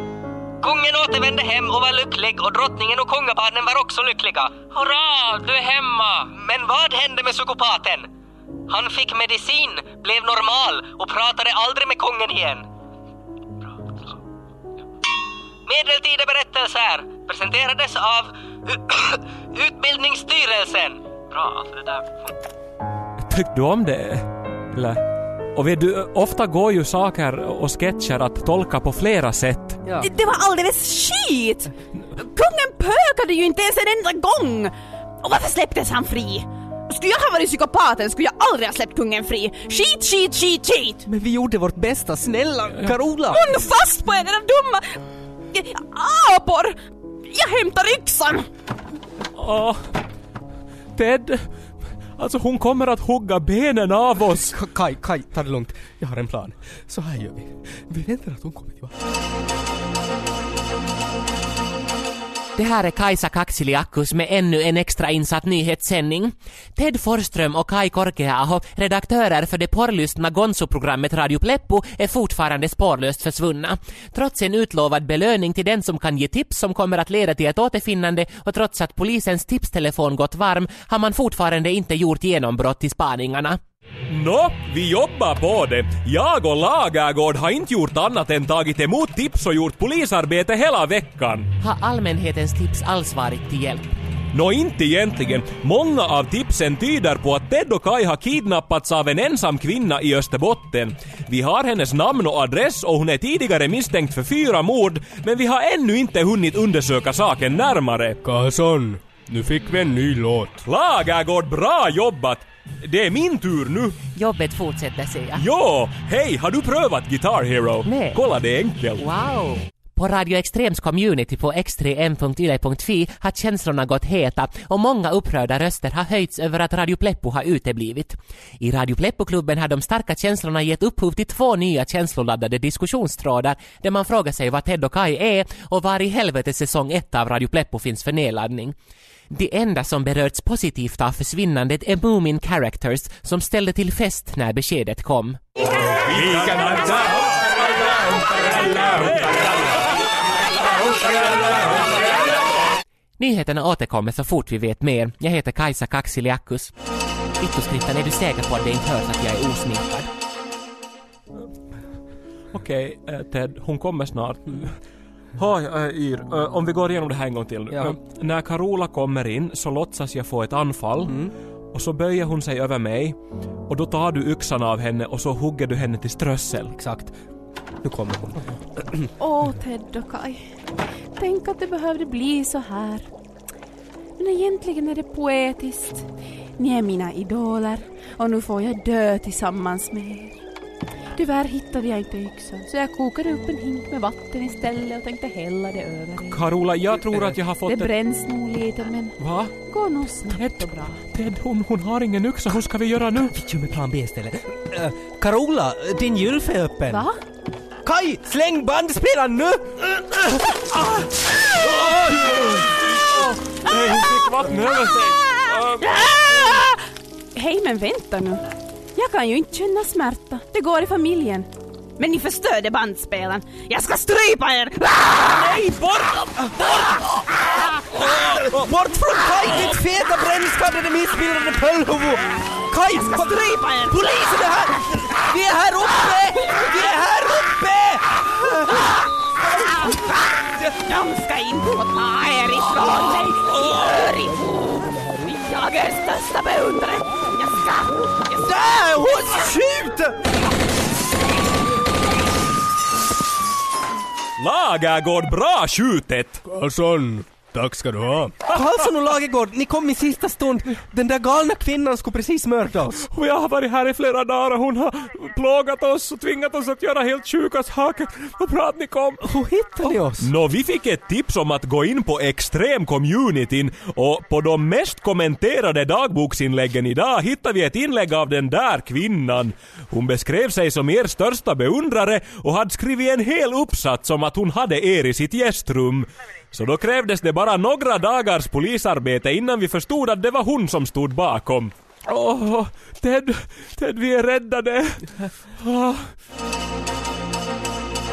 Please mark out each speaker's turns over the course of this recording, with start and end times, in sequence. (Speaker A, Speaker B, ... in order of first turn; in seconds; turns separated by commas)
Speaker A: 0.6-4.7, Speaker B: 4.9-6.1, Speaker A: 6.3-8.1, Speaker A: 8.7-12.7, Speaker A: 13.7-14.2, Speaker A: 15.7-22.2, Speaker B: 23.3-25.0, Speaker B: 25.6-29.8, Speaker C: 29.8-30.1, Speaker D: 30.0-41.1, Speaker C: 41.1-43.5, Speaker D: 43.3-45.0, Speaker D: 45.5-46.8, Speaker D: 47.3-48.5, Speaker B: 49.4-49.9, Speaker B: 51.0-51.6, Speaker B: 52.2-54.5, Speaker C: 54.4-59.0, Speaker E: 62.6-83.6, Speaker B: 84.1-91.5, Speaker E: 91.6-94.0, Speaker B: 94.3-108.2, Speaker F: 108.2-110.6, Speaker B: 110.6-114.0, Speaker E: 114.1-115.5, Speaker B: 115.4-119.0, Speaker E: 117.8-118.2, Speaker E: 119.0-138.8, Speaker E: 139.3-145.4, Speaker B: 145.9-149.8, Speaker B: 150.8-152.1, Speaker E: 153.2-156.7, Speaker E: 157.4-160.1, Speaker B: 162.5-164.8, Speaker B: 165.4-171.2, Speaker C: 167.7-168.0, Speaker C: 171.1-171.3, Speaker B: 171.7-173.2, Speaker B: 173.7-176.7, Speaker C: 176.7-177.2, Speaker C: 177.8-179.1, Speaker D: 179.2-180.4, Speaker D: 181.2-183.1, Speaker D: 184.2-186.1, Speaker D: 186.6-190.4, Speaker D: 191.2-196.4, Speaker B: 196.3-197.9, Speaker D: 197.7-201.0, Speaker B: 199.2-199.5, Speaker B: 201.1-203.4, Speaker C: 203.2-207.1, Speaker D: 206.9-207.2, Speaker C: 207.8-211.1, Speaker C: 211.6-212.5, Speaker B: 211.6-216.1, Speaker D: 215.4-216.8, Speaker D: 217.3-225.4, Speaker B: 225.4-226.4, Speaker C: 226.4-227.0, Speaker C: 227.8-238.9, Speaker B: 228.1-228.5, Speaker D: 232.9-234.1, Speaker D: 239.8-249.4, Speaker C: 248.4-250.2, Speaker B: 254.4-256.4, Speaker F: 256.4-258.4, Speaker C: 258.5-263.1, Speaker B: 263.0-269.3, Speaker C: 269.2-270.3, Speaker B: 269.9-296.2